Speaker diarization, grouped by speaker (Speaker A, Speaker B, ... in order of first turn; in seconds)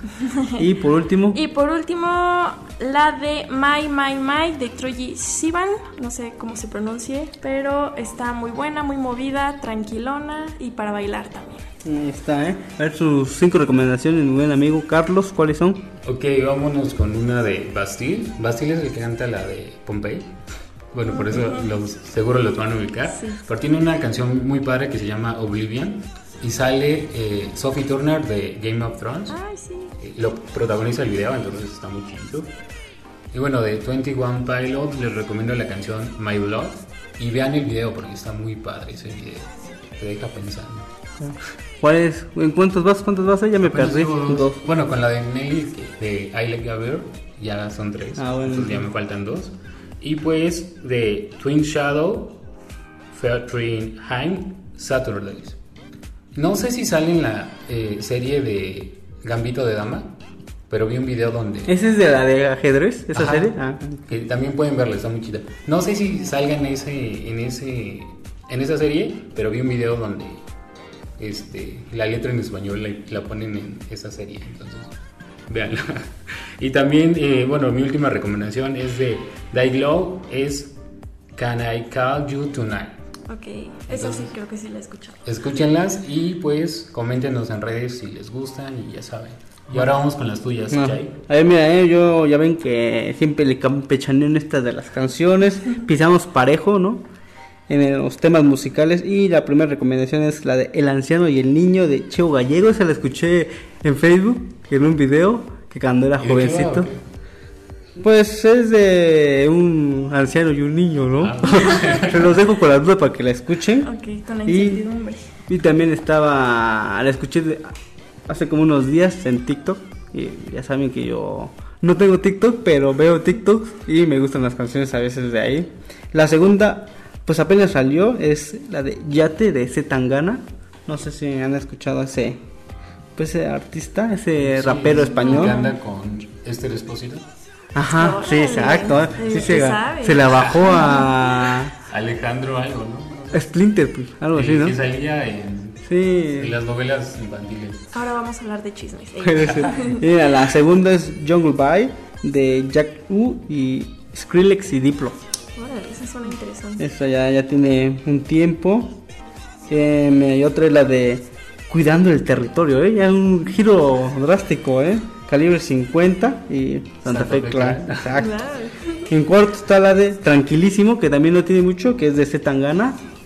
Speaker A: 0.2-0.6, 1.3-11.7, 21.1-21.7, 23.1-23.4, 29.3-29.9, 83.3-85.2, 113.8-115.2, 135.0-135.8, 137.9-141.5, 147.9-150.1, 155.6-156.9, 168.2-169.1
Speaker B: 0.6-1.4, 11.8-15.9, 41.2-44.6, 48.2-48.9, 61.7-64.0, 90.7-97.0, 97.7-106.9, 108.0-113.9, 114.5-114.8, 115.5-117.8, 118.3-132.4, 133.2-135.6, 137.8-141.7, 143.3-144.8, 145.8-146.6, 149.2-155.2, 156.8-159.0, 159.7-168.4, 169.1-173.0
Speaker C: 16.0-20.4, 20.9-29.4, 30.0-32.6, 33.3-40.9, 43.6-52.5, 53.1-55.6, 56.3-60.2, 60.7-61.7, 63.1-70.4, 71.2-74.9, 75.5-80.8, 81.3-83.0, 83.9-84.3, 85.2-91.2, 106.2-107.0, 111.2-112.4, 134.4-137.3, 140.2-141.1, 141.8-143.6, 144.3-147.9, 167.1-168.2